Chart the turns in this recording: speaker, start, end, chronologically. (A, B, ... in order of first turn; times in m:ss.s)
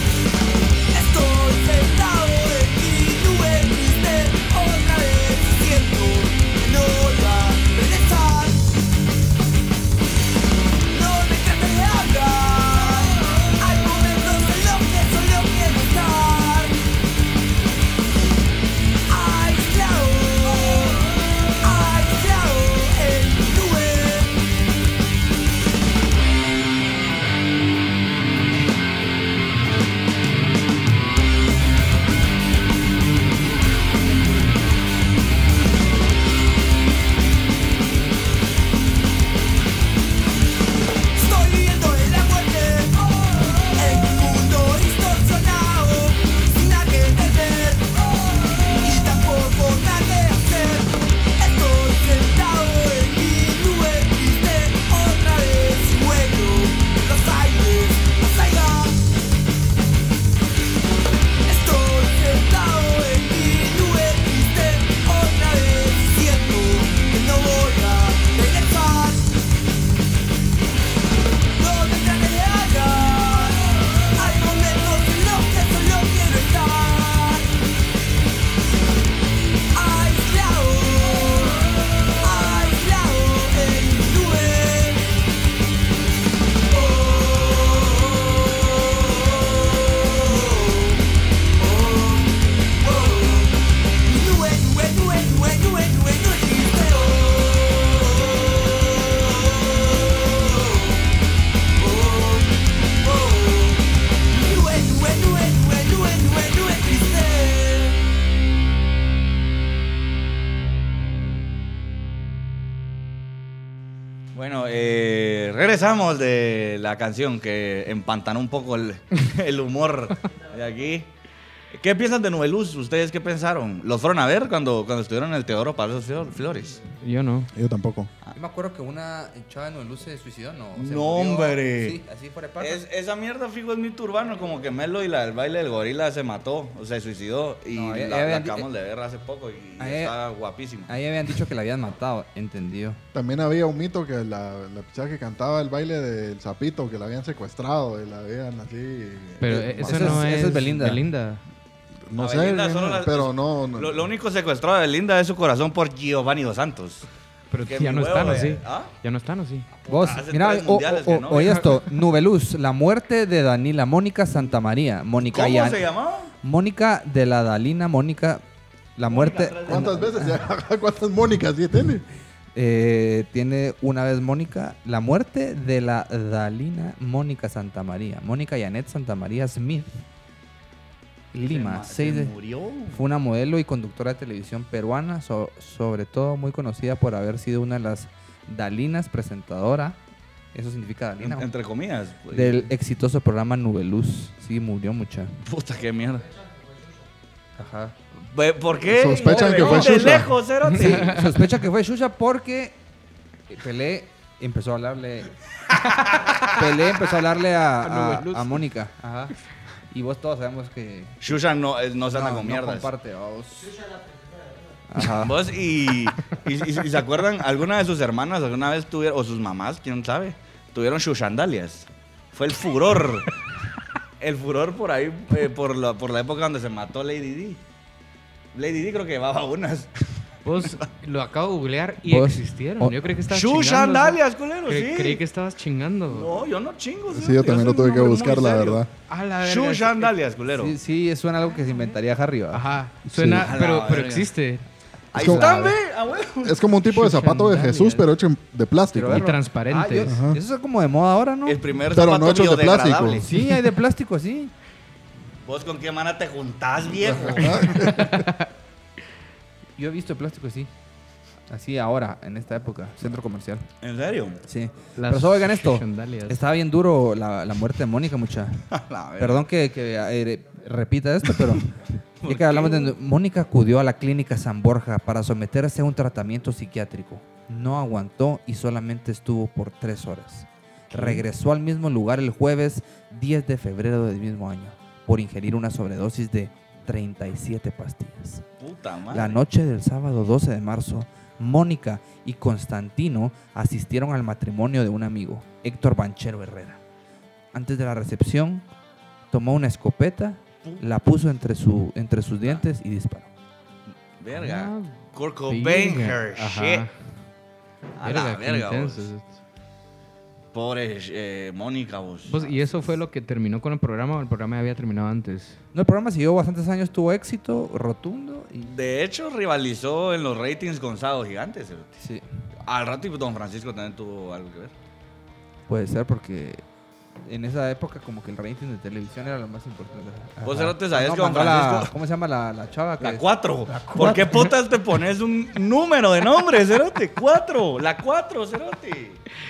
0:00.9-0:08.9 A
0:10.9-0:16.8 A
0:19.1-0:24.5 A
0:41.1-0:59.2 A
1:01.4-1:09.4 A
1:11.6-1:17.6 A
1:19.7-1:25.2 A
1:26.7-1:31.0 A
1:31.6-1:41.1 A
1:41.8-1:48.0 A
1:54.3-2:01.1 B
2:01.7-2:06.9 B
2:07.0-2:07.5 C
2:07.5-2:08.1 D
2:08.3-2:12.8 E
2:10.8-2:12.0 B
2:12.6-2:21.0 B
2:17.7-2:18.7 E
2:19.8-2:20.2 E
2:20.9-2:23.0 E
2:23.1-2:30.3 D
2:29.4-2:31.4 C
2:29.8-2:31.0 E
2:32.1-2:34.1 D
2:32.2-2:37.0 B
2:37.5-2:39.7 C
2:37.7-2:38.9 B
2:39.7-2:41.7 B
2:39.9-2:45.9 E
2:45.2-2:46.3 B
2:46.4-2:48.4 E
2:49.0-2:50.4 E
2:49.0-2:50.0 B
2:49.7-2:52.0 D
2:52.6-3:00.0 E
3:01.3-3:02.3 E
3:01.4-3:03.0 B
3:02.9-3:10.0 E
3:10.5-3:11.5 E
3:11.2-3:12.7 B
3:12.3-3:15.4 E
3:15.4-3:16.3 B
3:17.6-3:18.0 E
3:18.3-3:21.3 B
3:18.9-3:20.4 D
3:19.1-3:20.0 E
3:20.6-3:21.3 C
3:20.7-3:22.8 E
3:23.5-3:25.3 E
3:26.5-3:29.3 E
3:27.8-3:28.6 C
3:29.9-3:31.4 E
3:31.2-3:32.9 B
3:32.1-3:33.7 E
3:34.9-3:35.4 E
3:35.1-3:43.3 B
3:44.2-3:47.6 B
3:48.5-3:49.9 B
3:50.4-3:56.4 C
3:50.6-3:50.8 B
3:52.0-3:53.0 E
3:53.3-3:55.2 B
3:56.1-3:58.8 B
3:57.1-3:58.9 D
3:59.1-4:00.2 C
3:59.4-4:00.8 B
4:00.5-4:02.6 E
4:02.5-4:04.7 C
4:03.1-4:03.5 D
4:03.4-4:04.3 B
4:05.1-4:06.7 B
4:05.1-4:05.8 D
4:05.2-4:05.7 C
4:06.4-4:09.3 D
4:07.0-4:07.8 C
4:07.4-4:08.0 E
4:08.9-4:11.6 E
4:09.1-4:10.2 C
4:10.0-4:10.4 D
4:11.4-4:13.3 B
4:11.9-4:13.3 D
4:13.2-4:14.5 E
4:15.4-4:18.0 B
4:17.0-4:18.3 D
4:17.6-4:18.4 C
4:19.8-4:20.7 E
4:21.5-4:23.7 E
4:23.8-4:24.4 B
4:24.4-4:48.4 E
4:25.0-4:26.4 C
4:28.7-4:29.4 B
4:32.2-4:33.0 B
4:48.6-4:49.4 B
4:49.1-4:56.8 E
4:57.5-4:58.7 E
4:59.3-5:03.3 E
5:04.2-5:06.9 B
5:04.3-5:06.9 C
5:08.0-5:09.1 B
5:08.0-5:09.2 C
5:10.5-5:12.9 B
5:12.3-5:15.6 C
5:15.7-5:18.7 E
5:18.6-5:21.9 B
5:22.0-5:22.2 E
5:22.6-5:24.7 B
5:25.7-5:26.6 E
5:27.2-5:34.3 E
5:30.4-5:31.9 B
5:33.0-5:39.2 B